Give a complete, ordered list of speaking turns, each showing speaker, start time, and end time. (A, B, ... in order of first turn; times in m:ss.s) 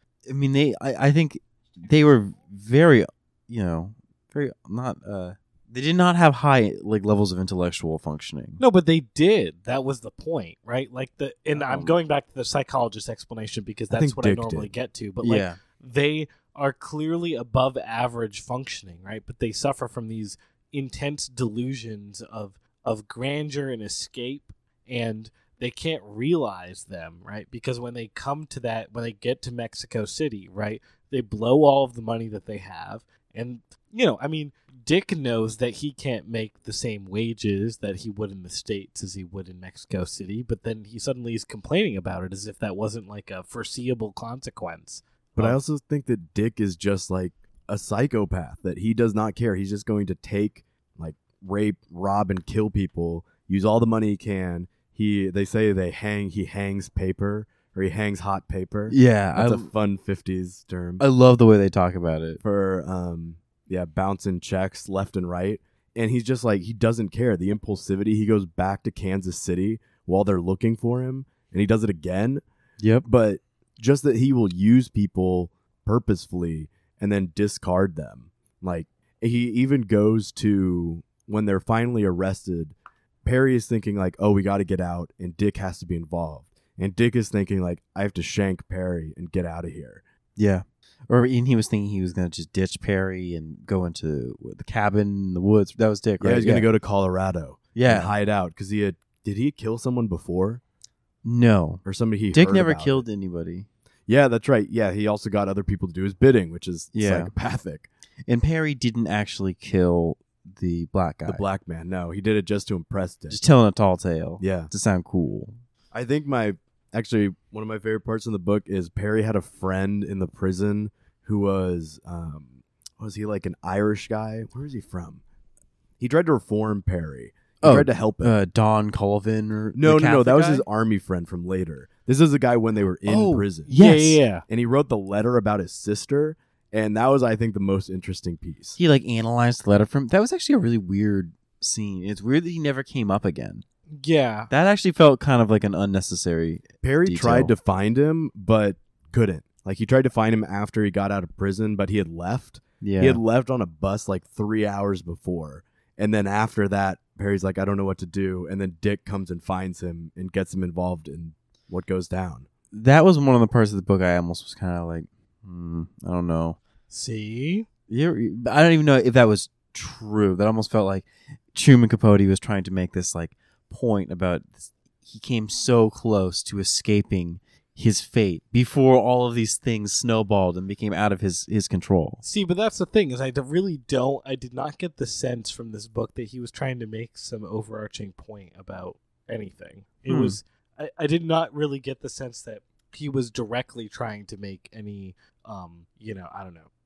0:00.2-0:08.6 A
0:08.6-0:45.6 B
0:11.5-0:12.0 A
0:13.9-0:14.7 C
0:15.2-0:15.6 A
0:45.4-1:01.0 C
0:58.9-0:59.7 A
1:01.0-1:02.4 A
1:02.4-1:12.4 C
1:12.8-1:13.0 A
1:13.0-1:30.0 C
1:30.4-1:36.7 A
1:36.2-1:40.6 C
1:37.7-1:38.1 A
1:41.2-1:43.7 A
1:41.8-1:43.0 C
1:44.1-1:47.9 C
1:46.9-1:47.3 A
1:48.3-1:51.4 A
1:51.2-1:53.4 C
1:53.3-1:55.6 A
1:54.4-1:54.7 C
1:55.9-2:05.2 C
2:06.0-2:08.3 C
2:07.6-2:10.6 A
2:09.7-2:13.7 C
2:13.0-2:14.2 A
2:13.7-2:14.4 B
2:14.5-2:18.8 C
2:18.8-2:23.6 A
2:24.0-2:24.5 B
2:24.5-2:27.5 A
2:26.8-2:42.5 C
2:32.8-2:33.2 A
2:42.7-2:46.6 A
2:46.9-2:47.7 B
2:47.9-3:02.2 A
3:02.2-3:16.7 B
3:10.1-3:10.4 A